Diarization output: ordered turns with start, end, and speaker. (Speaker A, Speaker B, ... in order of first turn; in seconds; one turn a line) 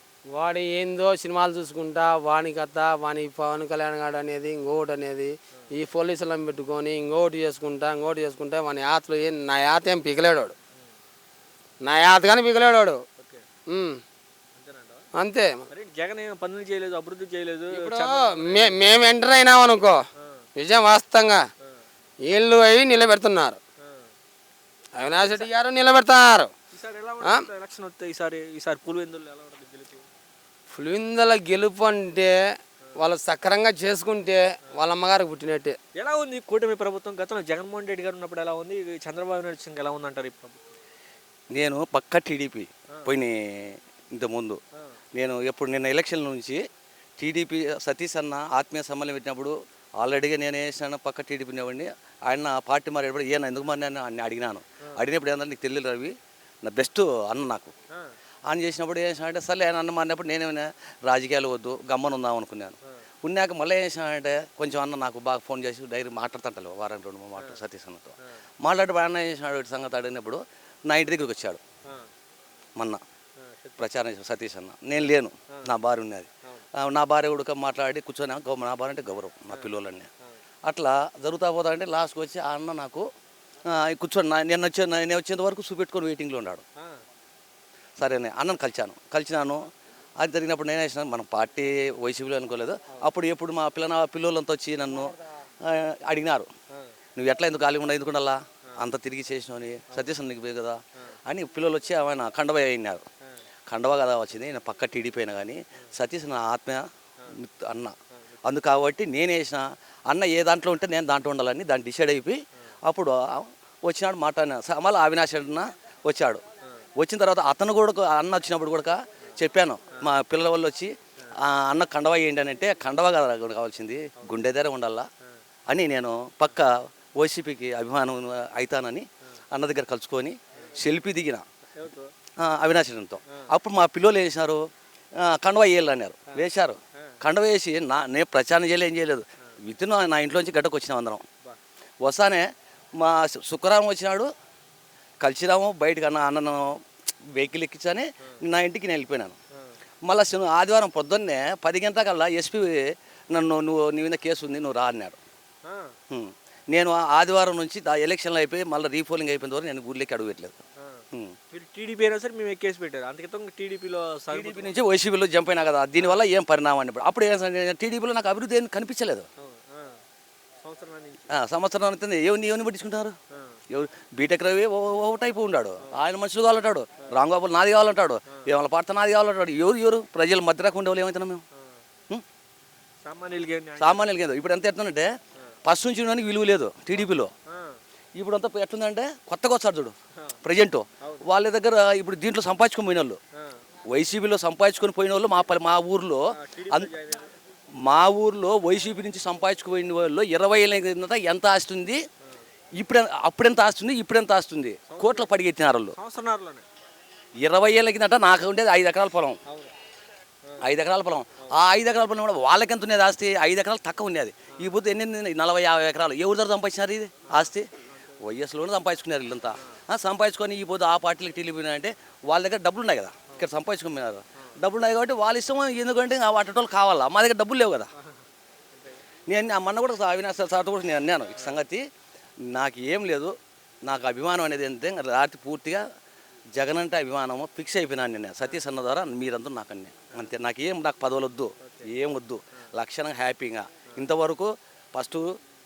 Speaker A: 0.3-10.5
Speaker A: 11.8-13.0
Speaker B: 13.2-13.4
Speaker A: 13.7-14.0
Speaker B: 14.5-15.1
Speaker A: 15.2-15.6
Speaker B: 15.7-18.8
Speaker A: 17.7-20.0
Speaker B: 20.2-20.4
Speaker A: 20.6-21.4
Speaker A: 22.2-23.6
Speaker B: 23.8-24.1
Speaker A: 24.9-26.5
Speaker B: 25.1-25.5
Speaker B: 26.7-30.1
Speaker A: 30.7-32.3
Speaker A: 33.0-35.8
Speaker B: 36.0-40.8
Speaker C: 41.5-44.6
Speaker C: 45.1-46.6
Speaker C: 47.2-56.1
Speaker C: 56.6-57.7
Speaker C: 58.5-71.6
Speaker B: 73.4-73.8
Speaker C: 73.8-76.3
Speaker C: 76.8-80.1
Speaker B: 79.5-80.4
Speaker C: 80.7-83.0
Speaker C: 83.7-86.6
Speaker B: 86.8-87.0
Speaker C: 88.0-89.7
Speaker C: 90.2-95.2
Speaker C: 95.7-96.5
Speaker C: 97.2-103.0
Speaker B: 99.9-100.2
Speaker C: 103.7-106.8
Speaker C: 107.4-107.9
Speaker B: 108.1-108.5
Speaker C: 108.4-116.4
Speaker C: 117.0-120.9
Speaker C: 121.4-125.1
Speaker C: 125.7-131.4
Speaker B: 131.7-132.1
Speaker C: 132.4-134.6
Speaker C: 135.2-141.2
Speaker C: 142.0-144.3
Speaker C: 145.2-146.8
Speaker C: 147.3-149.4
Speaker C: 150.1-155.2
Speaker B: 155.7-155.9
Speaker C: 156.1-160.6
Speaker B: 160.8-164.7
Speaker C: 164.3-169.3
Speaker B: 169.4-170.0
Speaker B: 170.6-171.3
Speaker C: 171.3-173.2
Speaker B: 173.3-173.6
Speaker C: 173.7-181.4
Speaker B: 181.5-181.8
Speaker B: 183.0-184.1
Speaker C: 183.8-185.1
Speaker C: 185.6-187.3
Speaker B: 186.9-187.8
Speaker C: 188.1-193.2
Speaker C: 193.9-196.9
Speaker B: 196.4-197.3
Speaker C: 197.8-202.0
Speaker C: 202.8-205.9
Speaker B: 204.9-205.3
Speaker B: 205.9-206.6
Speaker C: 207.4-209.4
Speaker B: 209.4-209.7
Speaker C: 210.6-217.7
Speaker B: 214.5-214.8
Speaker B: 217.3-218.2
Speaker C: 218.2-227.9
Speaker B: 228.0-229.0
Speaker C: 229.3-231.8
Speaker C: 232.4-233.3
Speaker C: 233.8-235.8
Speaker C: 236.6-245.3
Speaker B: 241.6-241.9